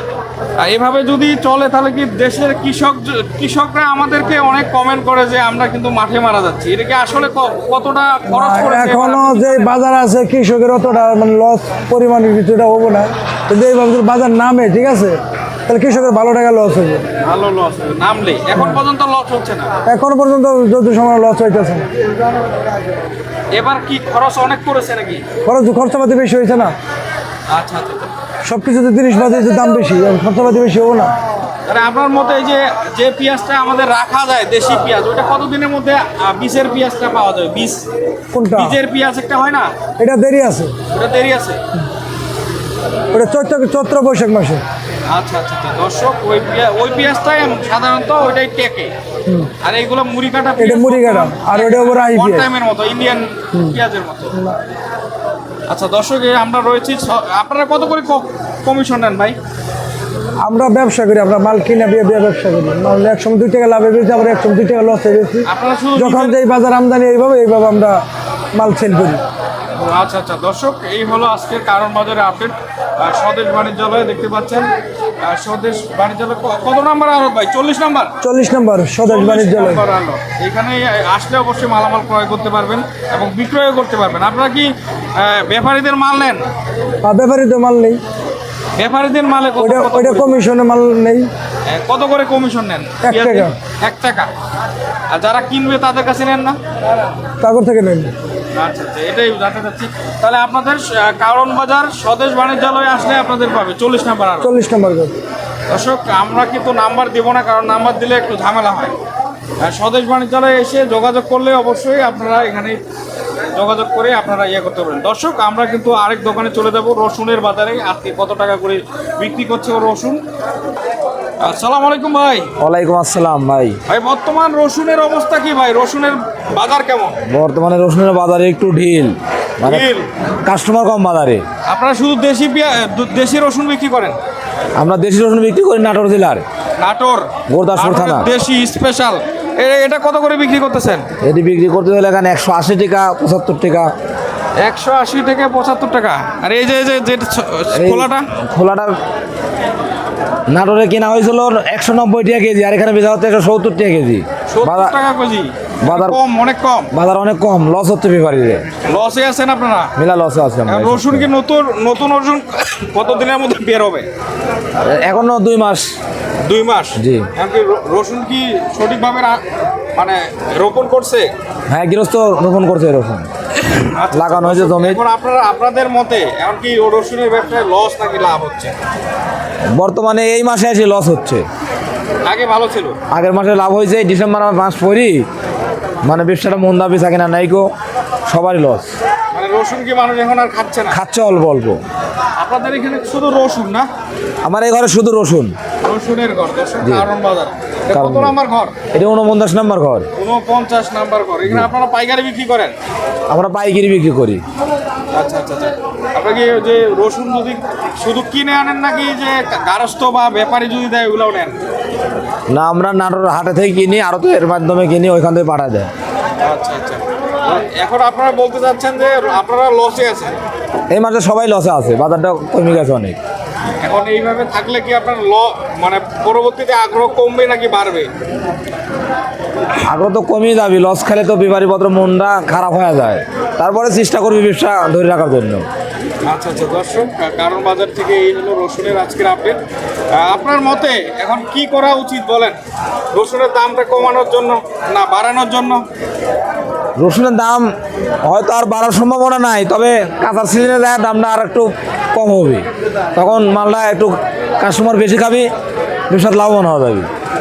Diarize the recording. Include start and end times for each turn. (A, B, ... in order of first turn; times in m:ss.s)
0:00.6-0:09.7 A
0:08.3-0:17.0 B
0:17.2-0:19.7 A
0:18.6-0:18.8 B
0:19.8-0:21.8 B
0:23.5-0:25.2 A
0:25.4-0:26.7 B
0:27.5-0:28.1 A
0:28.5-0:31.1 B
0:31.6-0:37.8 A
0:38.3-0:38.8 B
0:38.5-0:39.7 A
0:40.0-0:40.7 B
0:40.9-0:41.6 A
0:43.1-0:44.6 B
0:45.1-0:48.9 A
0:49.6-0:54.3 A
0:50.6-0:52.5 B
0:53.5-0:53.8 B
0:55.7-0:59.4 A
1:00.4-1:08.0 B
1:05.4-1:06.4 A
1:08.5-1:09.2 B
1:09.8-1:14.7 A
1:15.2-1:18.1 A
1:18.2-1:19.8 B
1:19.0-1:26.4 A
1:27.0-1:28.0 B
1:28.8-1:30.4 A
1:29.6-1:31.3 B
1:31.7-1:34.3 A
1:33.0-1:33.5 B
1:35.1-1:36.6 A
1:37.4-1:38.1 B
1:38.5-1:44.5 A
1:44.4-1:45.2 B
1:45.7-1:48.9 A
1:49.6-1:52.8 A
1:53.5-2:00.2 A
2:01.4-2:02.5 A
2:02.6-2:03.8 C
2:03.9-2:07.2 A
2:07.2-2:09.9 C
2:09.6-2:10.1 A
2:10.4-2:11.4 C
2:11.6-2:14.2 A
2:14.8-2:16.4 C
2:16.8-2:21.0 A
2:17.5-2:18.3 C
2:21.2-2:23.9 C
2:24.6-2:28.2 A
2:27.7-2:29.0 C
2:30.5-2:35.0 C
2:34.5-2:36.9 A
2:35.8-2:36.2 C
2:36.9-2:38.6 C
2:38.8-2:39.9 A
2:40.0-2:41.3 C
2:40.7-2:44.1 A
2:44.8-2:45.9 C
2:46.4-2:49.4 A
2:47.0-2:47.3 C
2:50.0-2:51.3 A
2:51.7-2:53.3 C
2:53.6-2:58.7 A
2:54.1-2:55.0 C
2:59.7-3:01.4 C
3:02.2-3:03.0 A
3:03.1-3:05.2 C
3:06.0-3:07.6 C
3:08.3-3:08.9 C
3:09.3-3:11.0 A
3:10.9-3:11.8 C
3:12.4-3:13.9 A
3:14.4-3:15.6 C
3:15.8-3:18.7 A
3:16.8-3:17.1 C
3:17.9-3:18.4 C
3:18.9-3:20.1 C
3:20.2-3:22.7 A
3:21.4-3:21.7 C
3:23.3-3:24.4 C
3:25.1-3:31.6 A
3:32.5-3:35.9 C
3:36.4-3:40.3 A
3:40.9-3:43.2 C
3:43.8-3:48.1 A
3:49.8-3:55.6 C
3:56.2-3:59.6 A
4:00.1-4:02.6 A
4:03.1-4:05.8 A
4:07.0-4:07.6 C
4:08.2-4:15.5 C
4:16.1-4:17.1 C